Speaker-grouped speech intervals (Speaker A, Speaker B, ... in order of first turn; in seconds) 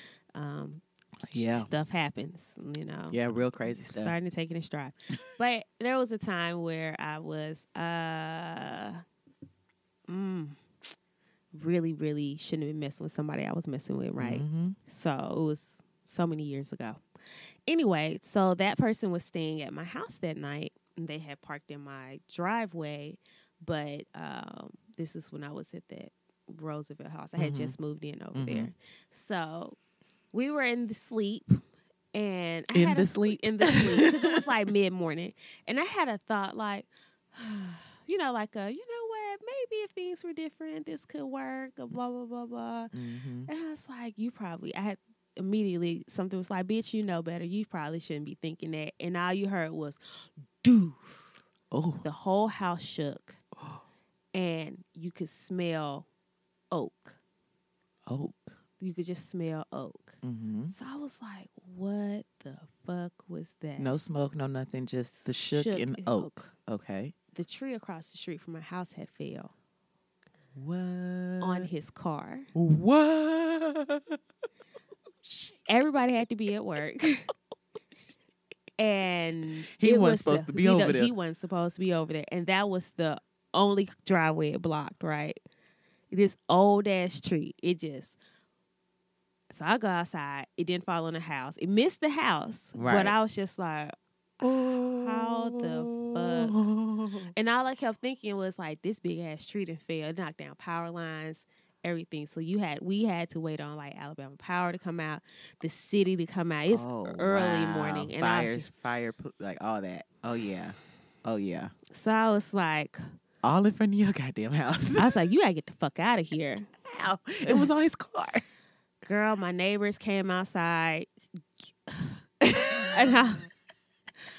Speaker A: 0.3-3.2, 3.7-9.0, 10.1-10.6, 11.5-17.0, 17.7-29.8, 30.3-31.6, 32.1-42.9, 43.5-50.0, 50.6-51.2, 52.0-53.4, 54.3-56.1, 56.7-57.2, 58.8-60.2, 60.7-64.0, 65.3-66.5, 67.3-69.5, 71.4-72.5, 75.7-77.3, 78.8-85.4, 86.1-88.2, 89.5-94.0, 94.8-96.7, 97.3-108.7, 111.9-113.0, 115.0-116.7, 119.0-123.5
Speaker B: 1.3-1.7, 3.1-4.2, 14.2-14.8, 27.4-27.8, 28.4-28.7, 32.7-34.5, 42.9-43.5, 51.7-52.0, 58.1-58.5, 60.2-60.8, 63.8-67.1, 70.5-71.7, 72.5-74.2, 75.2-75.7, 79.7-81.1, 92.7-93.1, 94.4-97.3, 106.7-111.7, 113.4-115.1, 116.8-118.4, 122.5-123.0